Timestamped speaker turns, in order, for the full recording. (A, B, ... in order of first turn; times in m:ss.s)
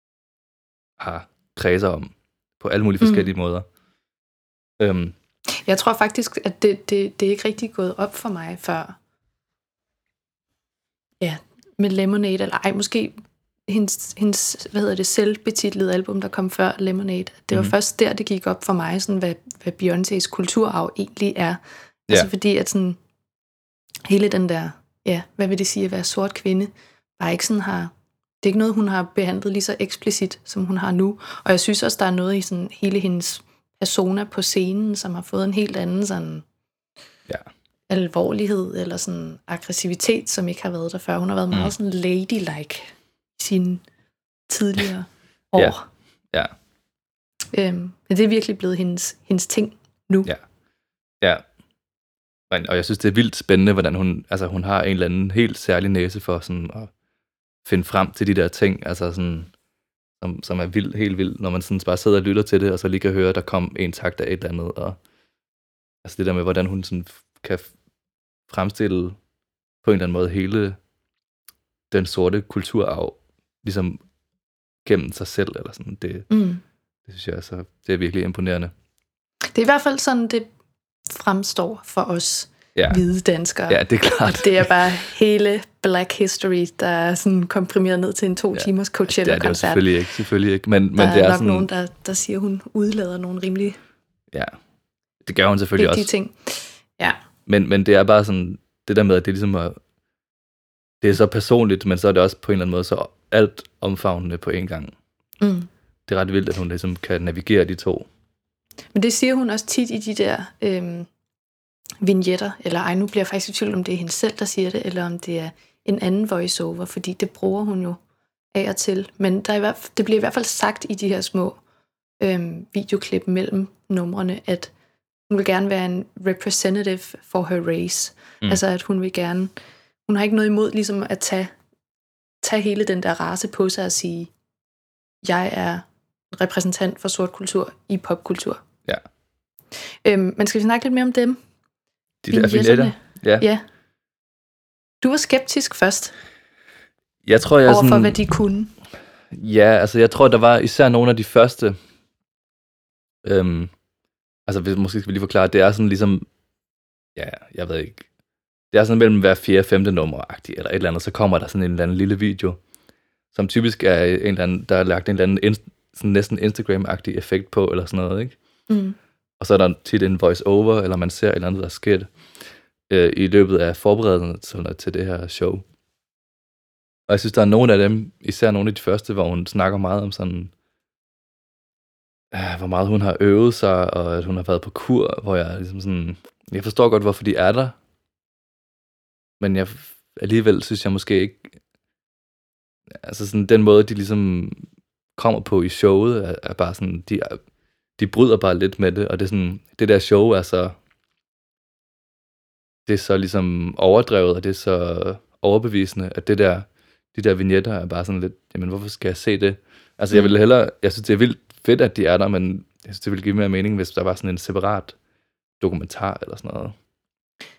0:01.0-0:03.6 A
0:03.0-0:03.3 B
0:04.8-0:05.2 A
0:05.6-0:09.0 B
0:11.2-0:13.1 B
0:13.7-0:23.0 B
0:24.1-0:36.4 B
0:37.9-0:43.8 B
0:44.5-0:45.8 B
0:47.5-0:50.3 B
0:52.5-0:56.9 A
0:57.6-0:59.5 A
1:00.2-1:05.0 A
1:06.0-1:07.7 A
1:08.5-1:09.2 A
1:09.8-1:10.8 A
1:11.9-1:14.0 A
1:14.8-1:16.3 A
1:16.3-1:16.6 B
1:17.1-1:18.7 A
1:19.5-1:20.5 B
1:21.1-1:23.8 B
1:22.7-1:23.0 A
1:23.7-1:24.7 A
1:24.3-1:29.8 B
1:28.5-1:31.7 A
1:31.0-1:33.8 B
1:35.2-1:36.1 A
1:35.8-1:37.2 B
1:37.5-1:39.8 A
1:41.0-1:44.9 A
1:45.4-1:45.7 B
1:46.1-1:48.1 A
1:48.9-1:51.1 B
1:52.0-1:58.0 B
1:58.5-2:01.6 B
2:02.2-2:04.7 B
2:05.3-2:09.5 B
2:10.1-2:11.5 B
2:12.4-2:14.3 B
2:15.2-2:18.6 B
2:20.0-2:21.4 B
2:22.2-2:23.5 A
2:22.3-2:23.6 B
2:25.0-2:26.1 B
2:27.2-2:28.2 A
2:27.6-2:28.7 B
2:29.3-2:31.8 A
2:33.2-2:33.7 A
2:34.5-2:36.3 A
2:37.2-2:38.0 A
2:38.7-2:42.6 A
2:43.3-2:48.3 A
2:48.7-2:49.0 B
2:49.4-2:52.1 A
2:52.9-2:55.6 A
2:57.1-3:00.5 A
3:02.3-3:07.8 A
3:09.4-3:11.6 A
3:12.9-3:14.6 A
3:15.2-3:17.4 A
3:18.0-3:20.8 A
3:22.8-3:34.9 A
3:35.6-3:36.7 A